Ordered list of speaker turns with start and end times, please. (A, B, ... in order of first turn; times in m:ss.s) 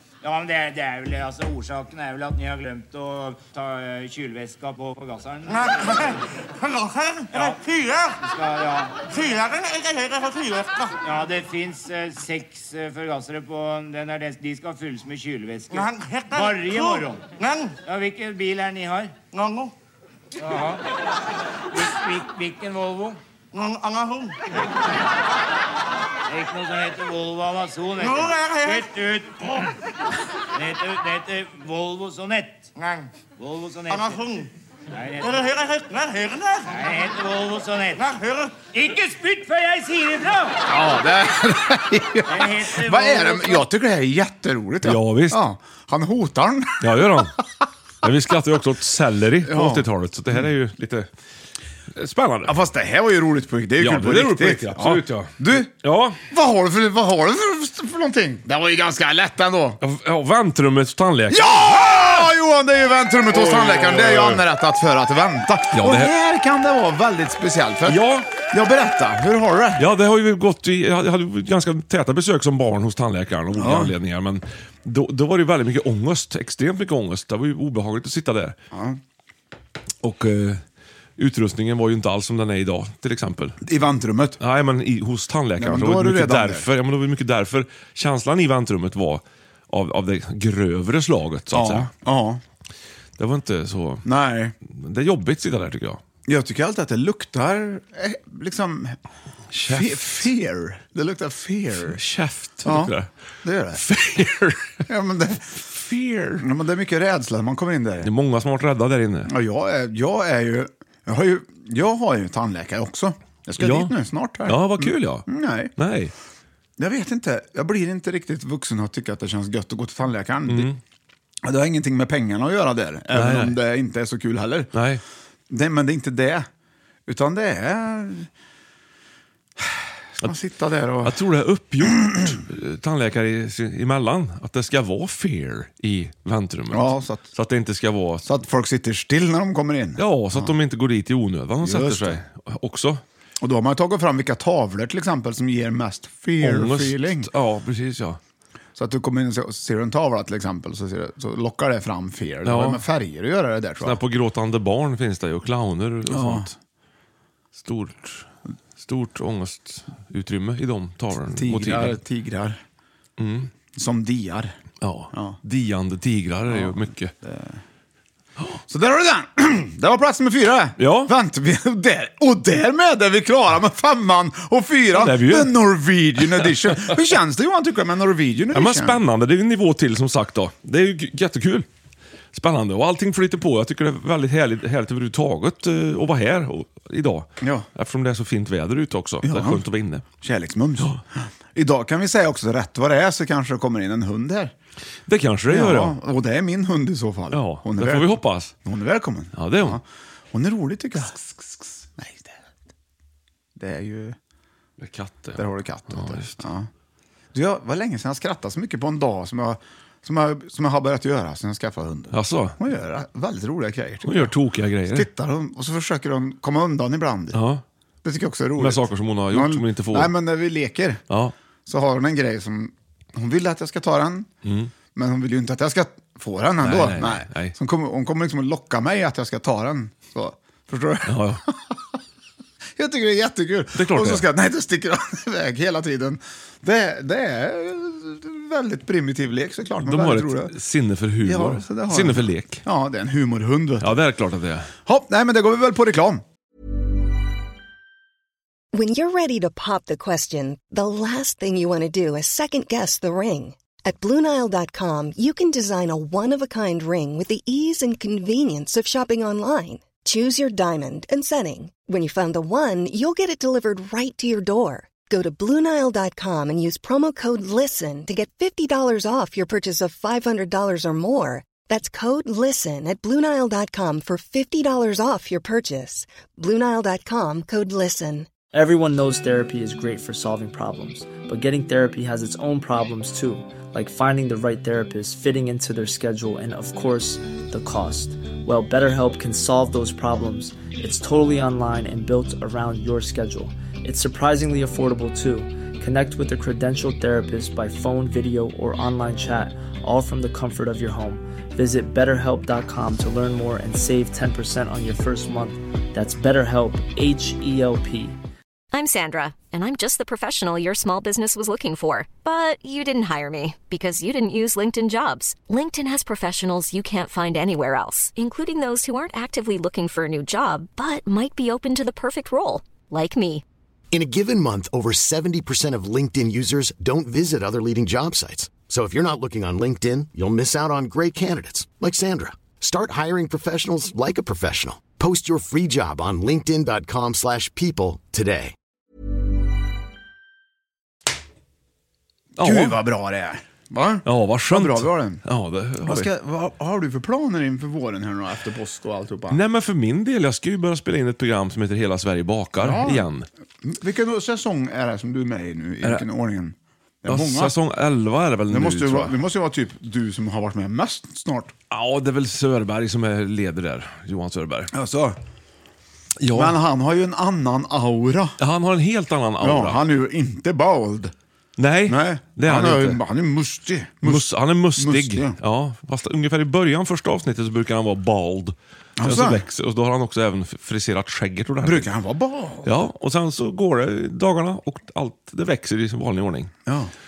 0:00.2-0:06.2 A
0:07.3-0:09.4 A
0:11.0-0:17.3 A
0:17.8-0:19.2 A
0:20.4-0:20.8 A
0:21.7-0:23.2 A
0:24.5-0:24.8 A
0:26.3-0:29.7 A
0:30.5-0:32.7 A
0:33.4-0:35.7 A
0:36.6-0:40.6 A
0:40.6-0:47.3 B
0:42.3-0:43.6 A
0:44.8-0:45.4 C
0:46.8-0:47.4 C
0:48.0-0:51.1 C
0:49.4-0:50.5 B
0:51.9-0:52.5 C
0:52.4-0:55.7 B
0:53.8-0:56.2 C
0:56.3-0:59.8 B
0:59.8-1:02.3 C
1:01.3-1:09.9 B
1:03.3-1:04.4 C
1:05.7-1:06.1 C
1:07.8-1:08.3 C
1:09.8-1:18.6 C
1:13.5-1:13.9 B
1:18.7-1:19.0 B
1:20.0-1:20.6 C
1:21.2-1:23.6 C
1:23.6-1:24.4 B
1:24.4-1:31.9 C
1:25.6-1:26.6 B
1:31.5-1:32.4 B
1:33.2-1:34.0 C
1:34.0-1:34.5 B
1:34.7-1:36.0 C
1:36.2-1:39.0 B
1:39.5-1:40.3 C
1:39.6-1:42.0 B
1:41.9-1:43.1 C
1:42.6-1:43.8 B
1:43.7-1:44.8 C
1:44.9-1:45.6 B
1:45.7-1:46.4 C
1:46.4-1:48.1 B
1:48.0-1:49.3 C
1:49.2-1:55.7 B
1:53.6-1:53.9 C
1:54.4-1:56.1 C
1:56.8-2:00.7 B
2:00.5-2:00.8 C
2:01.4-2:04.7 B
2:03.1-2:03.6 C
2:04.7-2:05.0 C
2:05.5-2:06.5 B
2:07.1-2:08.3 B
2:09.6-2:11.2 B
2:11.0-2:18.3 C
2:16.7-2:17.3 B
2:18.2-2:20.5 B
2:20.0-2:23.0 C
2:21.6-2:22.2 B
2:23.4-2:27.3 B
2:26.4-2:28.2 C
2:28.8-2:34.0 B
2:32.4-2:32.8 C
2:33.8-2:36.5 C
2:36.1-2:36.5 B
2:37.5-2:42.0 C
2:41.2-2:42.6 B
2:43.2-2:43.5 C
2:43.7-2:44.5 B
2:44.8-2:47.1 C
2:45.1-2:45.4 B
2:46.5-2:47.6 B
2:48.7-2:59.0 B
2:50.8-2:51.1 C
2:54.9-2:55.6 C
2:56.3-2:57.0 C
2:58.5-3:01.7 C
3:02.3-3:10.0 C
3:07.4-3:07.7 B
3:09.2-3:09.6 B
3:10.2-3:14.5 B
3:15.0-3:16.0 C
3:15.5-3:19.8 B
3:17.3-3:18.5 C
3:19.3-3:19.8 C
3:20.3-3:22.3 B
3:23.6-3:24.2 B
3:24.8-3:26.4 C
3:25.4-3:26.7 B
3:27.3-3:34.3 B
3:32.1-3:32.6 C
3:34.0-3:35.1 C
3:34.9-3:37.4 B
3:37.3-3:37.6 C
3:38.0-3:41.0 B
3:38.6-3:40.1 C
3:41.6-3:44.3 B
3:44.4-3:44.7 C
3:44.9-3:51.8 B
3:46.6-3:47.5 C
3:51.0-3:51.4 C
3:52.8-4:00.5 B
3:53.7-3:54.2 C
3:59.8-4:02.6 C
4:01.2-4:03.9 B
4:03.8-4:04.7 C
4:04.8-4:06.2 B
4:08.7-4:38.3 D
4:38.5-5:08.2 E
5:08.7-5:23.4 F
5:23.9-5:38.5 G
5:42.4-5:42.8 C
5:42.4-5:45.2 B
5:44.0-5:46.1 C
5:45.8-5:49.4 B
5:49.3-5:53.2 C
5:52.6-5:53.1 B
5:53.6-5:57.5 B
5:57.0-5:59.2 C
5:58.5-6:01.5 B
6:01.7-6:04.7 C
6:04.7-6:05.2 B
6:06.2-6:06.6 C
6:06.3-6:08.3 B
6:08.4-6:09.8 C
6:09.4-6:11.1 B
6:11.6-6:13.0 C
6:11.9-6:15.4 B
6:14.0-6:21.9 C
6:19.0-6:19.4 B
6:21.6-6:22.7 B
6:22.6-6:26.5 C
6:26.6-6:26.9 B